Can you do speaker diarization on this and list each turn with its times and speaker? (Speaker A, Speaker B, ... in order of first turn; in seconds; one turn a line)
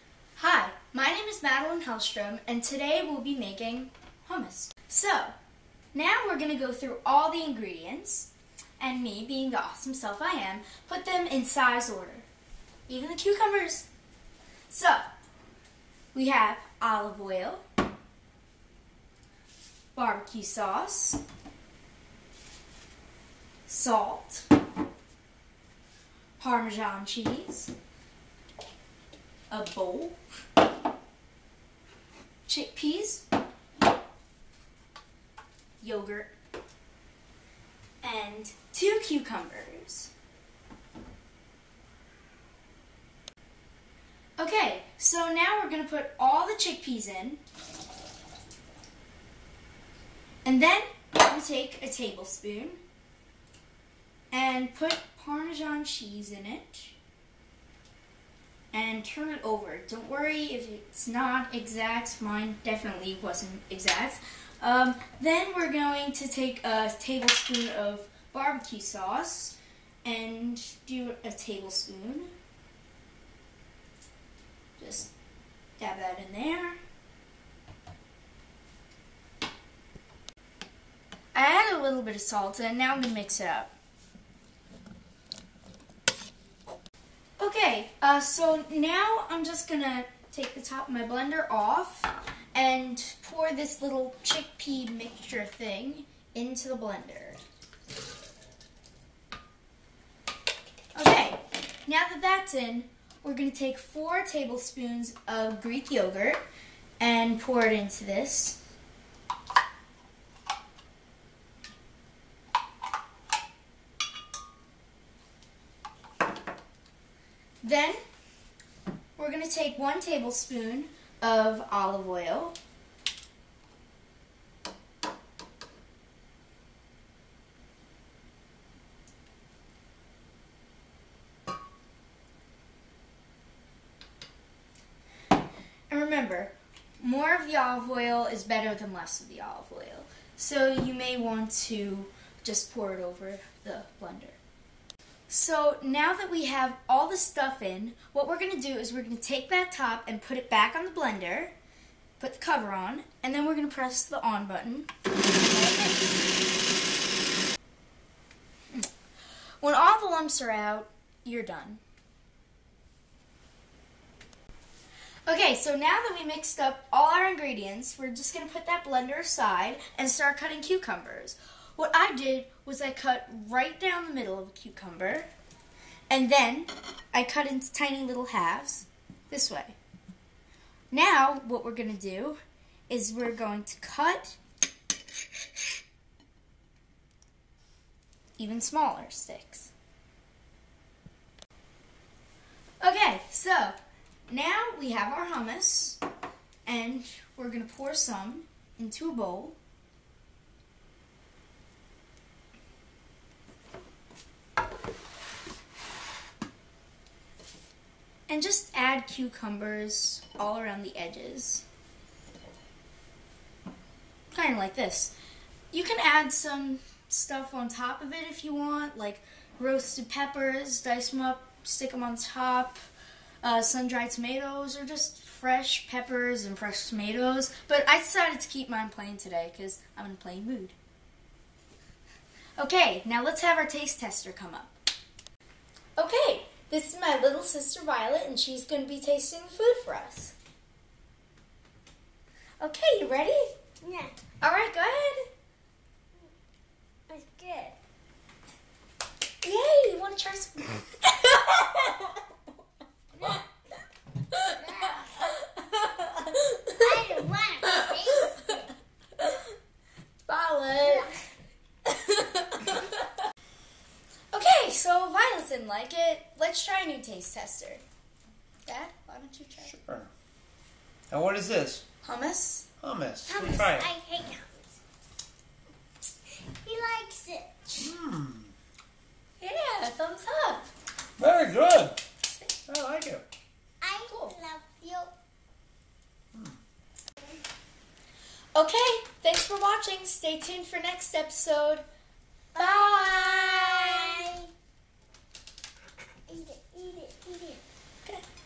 Speaker A: 0.4-5.3
Speaker A: 5.9-12.2
Speaker A: 12.9-13.9
Speaker A: 14.7-15.0
Speaker A: 16.1-17.6
Speaker A: 19.9-21.2
Speaker A: 23.7-24.5
Speaker A: 26.4-27.7
Speaker A: 29.5-30.2
Speaker A: 32.5-33.2
Speaker A: 35.8-36.3
Speaker A: 38.0-40.1
Speaker A: 44.4-47.4
Speaker A: 50.4-52.8
Speaker A: 54.3-57.0
Speaker A: 58.7-72.3
Speaker A: 74.8-75.1
Speaker A: 75.8-76.8
Speaker A: 81.3-83.7
Speaker A: 87.4-97.4
Speaker A: 100.9-106.4
Speaker A: 107.0-108.6
Speaker A: 117.6-118.0
Speaker A: 119.2-122.5
Speaker A: 135.9-144.4
Speaker A: 145.3-151.5
Speaker A: 152.2-154.9
Speaker A: 155.4-156.1
Speaker A: 159.6-161.8
Speaker A: 165.3-175.3
Speaker A: 176.1-179.8
Speaker A: 180.9-182.4
Speaker A: 182.9-184.4
Speaker A: 188.4-189.7
Speaker A: 192.8-193.8
Speaker A: 194.3-196.0
Speaker A: 196.6-199.6
Speaker A: 208.3-211.6
Speaker A: 214.3-215.1
Speaker A: 215.7-222.8
Speaker A: 223.4-230.7
Speaker A: 232.6-234.7
Speaker A: 236.0-240.3
Speaker A: 242.6-243.5
Speaker B: 243.8-244.1
Speaker A: 244.4-245.3
Speaker B: 247.1-247.7
Speaker A: 249.4-252.2
Speaker A: 254.3-257.1
Speaker B: 254.5-255.3
Speaker B: 256.7-258.7
Speaker A: 257.7-258.3
Speaker A: 260.2-261.1
Speaker B: 260.8-261.2
Speaker A: 261.9-263.1
Speaker A: 264.3-267.8
Speaker A: 268.6-269.7
Speaker C: 269.6-270.1
Speaker C: 271.1-271.8
Speaker A: 272.0-272.7
Speaker C: 272.8-273.9
Speaker B: 273.2-274.7
Speaker B: 276.5-277.5
Speaker C: 277.8-278.5
Speaker A: 279.4-280.7
Speaker C: 281.2-282.0
Speaker A: 282.3-282.5
Speaker C: 282.7-283.2
Speaker B: 283.8-285.1
Speaker A: 284.1-284.4
Speaker A: 288.5-291.8
Speaker B: 292.5-294.5
Speaker A: 292.6-294.2
Speaker B: 296.3-297.6